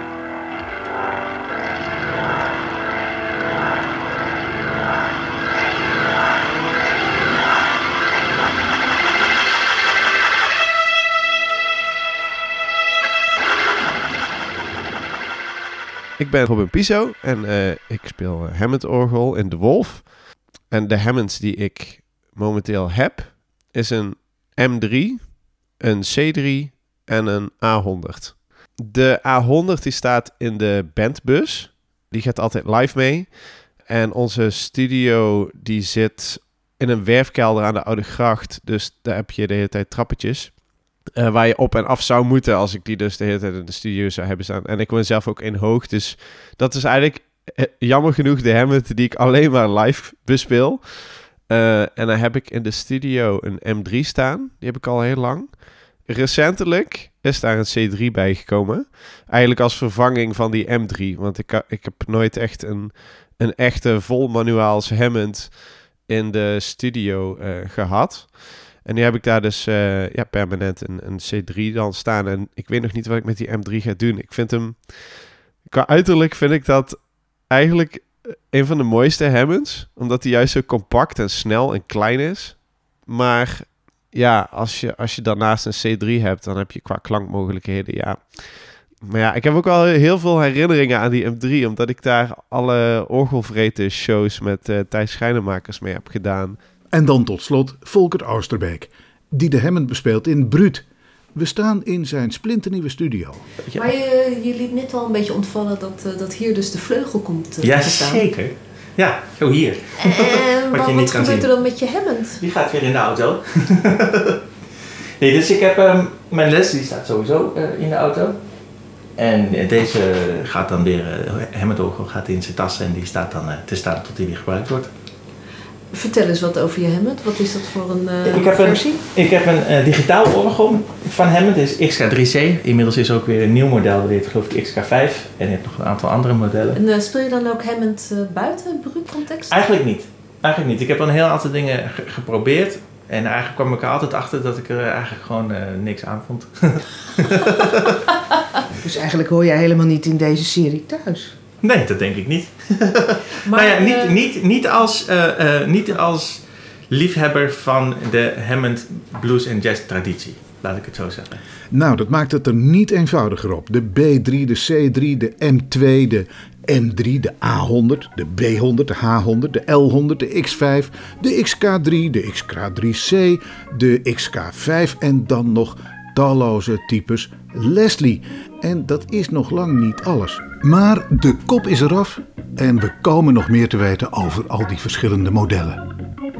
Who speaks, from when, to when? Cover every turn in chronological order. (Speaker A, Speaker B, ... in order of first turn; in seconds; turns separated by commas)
Speaker A: 16.2-96.7, Speaker B: 96.9-103.4, Speaker C: 103.6-103.9, Speaker D: 103.7-108.2, Speaker C: 107.6-114.4, Speaker D: 110.0-112.4, Speaker C: 115.2-118.4, Speaker C: 119.1-124.9, Speaker D: 125.9-129.0, Speaker C: 128.2-136.8, Speaker D: 136.7-139.5, Speaker C: 139.5-147.8, Speaker E: 148.8-151.3, Speaker C: 151.6-161.4, Speaker D: 153.4-154.1, Speaker B: 161.7-185.8